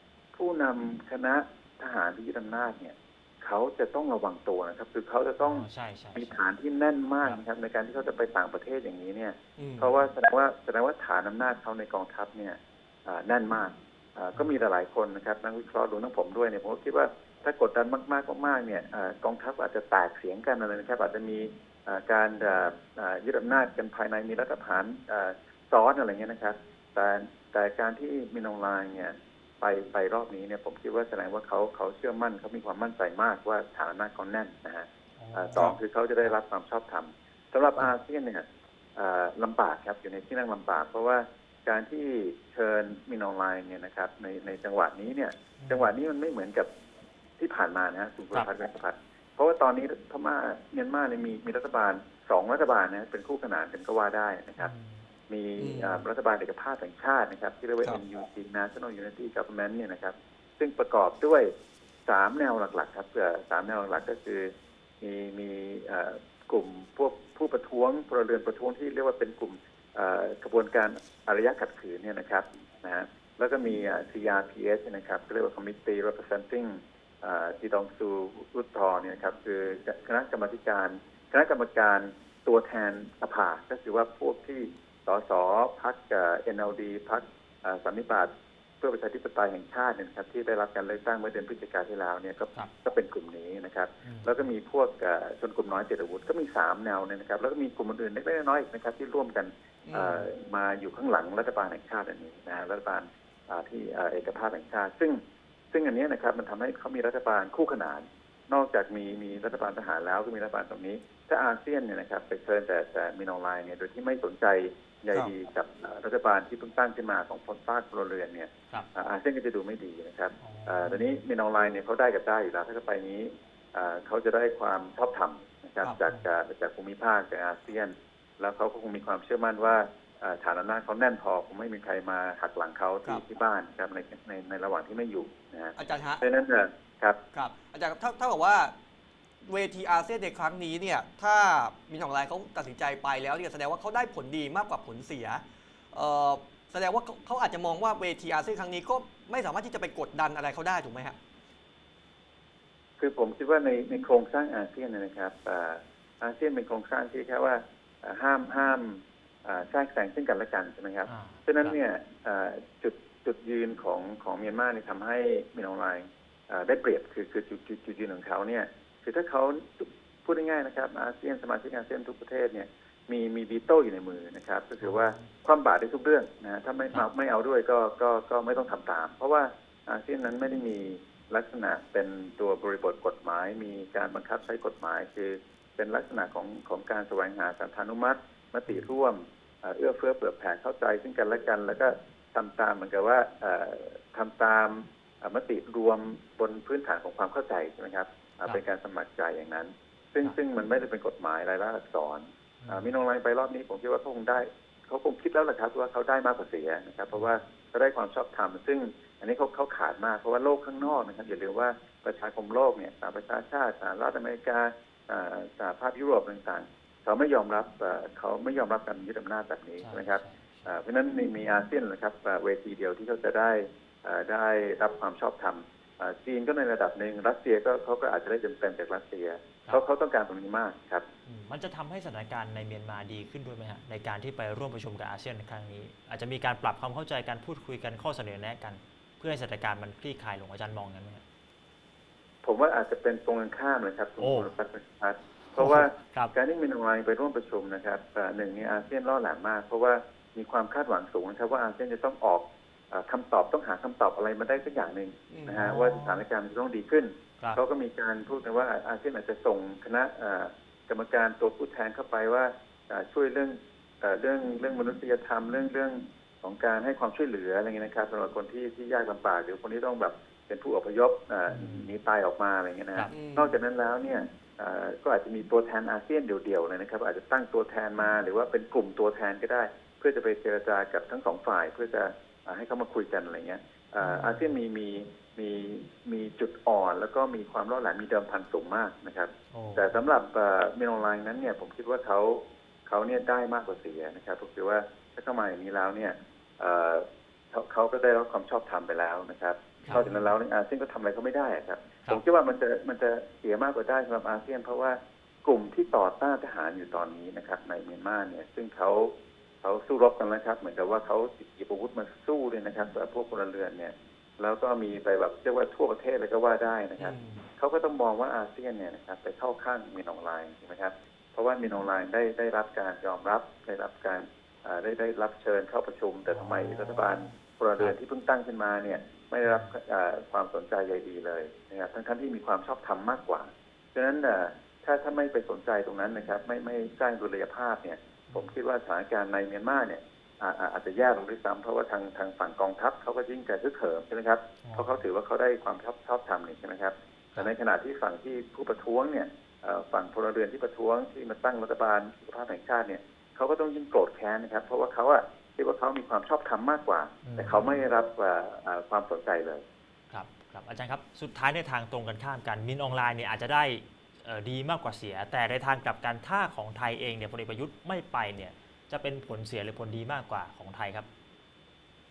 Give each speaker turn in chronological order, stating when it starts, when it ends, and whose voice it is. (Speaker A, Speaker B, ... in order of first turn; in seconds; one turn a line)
Speaker A: 0.3-38.4
Speaker B: 5.4-6.4
Speaker C: 9.6-9.9
Speaker B: 35.2-36.3
Speaker A: 39.0-46.7
Speaker B: 45.6-45.9
Speaker A: 47.4-54.7
Speaker B: 54.6-55.0
Speaker A: 55.3-61.5
Speaker C: 55.6-56.0
Speaker A: 62.0-64.5
Speaker A: 65.0-105.2
Speaker B: 94.0-94.3
Speaker C: 99.9-100.2
Speaker A: 105.7-137.2
Speaker B: 120.4-121.2
Speaker C: 135.8-136.2
Speaker C: 137.3-138.7
Speaker C: 139.4-145.4
Speaker C: 145.9-151.2
Speaker A: 153.0-231.1
Speaker B: 161.1-161.8
Speaker B: 174.8-175.3
Speaker B: 188.7-188.9
Speaker B: 202.6-202.9
Speaker B: 219.8-220.8
Speaker B: 231.2-241.2
Speaker A: 242.4-359.6
Speaker B: 244.2-244.5
Speaker B: 245.5-246.3
Speaker C: 255.3-255.6
Speaker B: 255.6-256.2
Speaker B: 271.5-271.9
Speaker C: 273.1-273.6
Speaker B: 284.0-284.5
Speaker B: 289.5-290.0
Speaker B: 299.8-300.3
Speaker C: 317.0-317.5
Speaker B: 326.3-327.2
Speaker B: 329.4-329.7
Speaker B: 338.3-338.5
Speaker B: 344.6-345.0
Speaker B: 357.2-357.8
Speaker B: 360.1-371.1